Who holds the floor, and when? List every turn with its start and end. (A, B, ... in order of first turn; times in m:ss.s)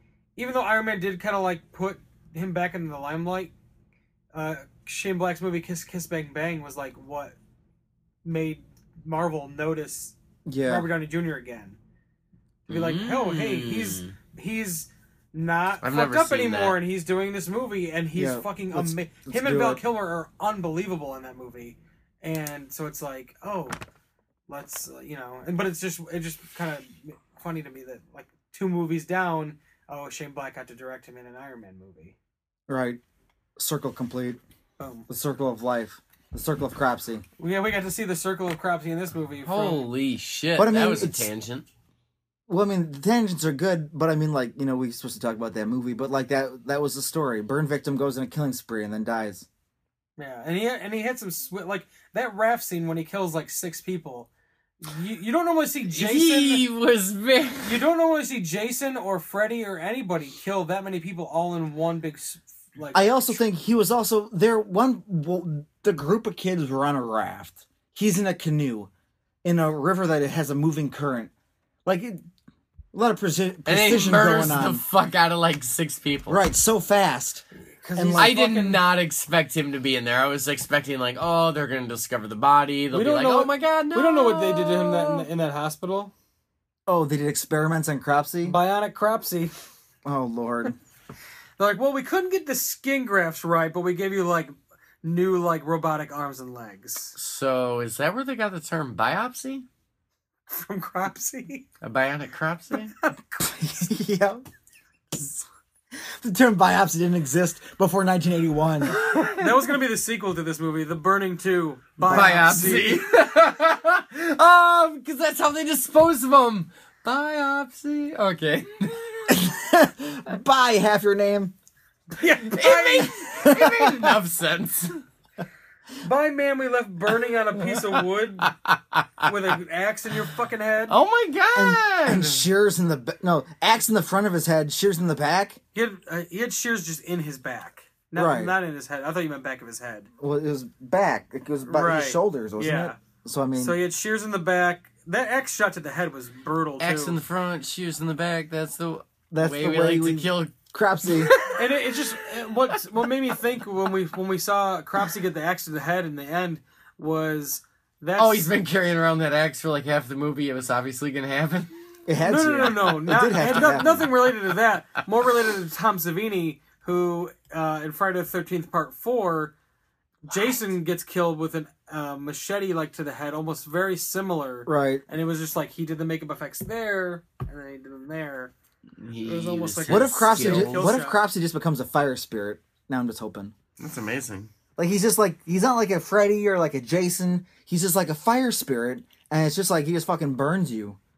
0:00.4-0:03.5 A
0:04.3-0:07.4 A
0:08.2-0:11.8 A
0:10.5-0:10.9 B
0:12.7-0:14.2 C
0:12.7-0:23.8 A
0:15.8-0:16.8 C
0:18.1-0:19.8 B
0:24.5-0:32.2 A
0:32.7-0:33.0 B
0:33.6-0:34.4 B
0:34.8-0:35.1 A
0:35.1-0:37.2 B
0:37.4-0:39.9 A
0:39.4-0:41.7 C
0:40.6-0:41.3 B
0:42.5-0:49.5 B
0:50.2-0:56.7 A
0:55.9-0:57.8 C
0:57.6-1:03.4 A
1:02.9-1:08.9 B
1:09.4-1:11.3 B
1:11.8-1:12.2 B
1:12.9-1:14.8 B
1:13.7-1:16.4 C
1:16.3-1:17.4 B
1:17.7-1:18.8 A
1:18.0-1:18.3 B
1:18.2-1:25.3 C
1:22.9-1:26.1 A
1:26.9-1:28.6 B
1:28.4-1:29.5 A
1:30.0-1:30.8 B
1:31.6-1:37.2 A
1:37.2-1:39.7 C
1:40.5-1:41.7 A
1:41.8-1:42.9 C
1:43.0-1:43.5 A
1:43.4-1:44.4 B
1:46.0-1:49.0 B
1:48.9-1:49.7 C
1:49.0-1:53.0 A
1:52.0-1:52.9 B
1:52.1-1:59.4 C
1:59.3-2:01.5 B
2:02.2-2:03.5 A
2:02.5-2:05.0 C
2:03.3-2:04.2 B
2:06.0-2:08.5 A
2:07.6-2:09.3 C
2:09.2-2:11.0 A
2:10.9-2:12.4 C
2:11.5-2:15.6 B
2:15.8-2:20.1 A
2:18.2-2:18.6 B
2:20.2-2:23.8 B
2:21.7-2:23.0 A
2:23.6-2:27.2 A
2:26.8-2:31.7 C
2:29.3-2:31.3 B
2:31.5-2:38.5 A
2:38.2-2:41.8 C
2:42.1-2:44.1 B
2:42.2-2:49.5 A
2:43.4-2:44.5 C
2:50.2-2:58.5 A
2:54.7-2:55.0 B
2:59.0-3:00.9 C
2:59.2-3:01.2 A
2:59.9-3:03.5 B
3:03.8-3:04.5 C
3:04.8-3:11.0 B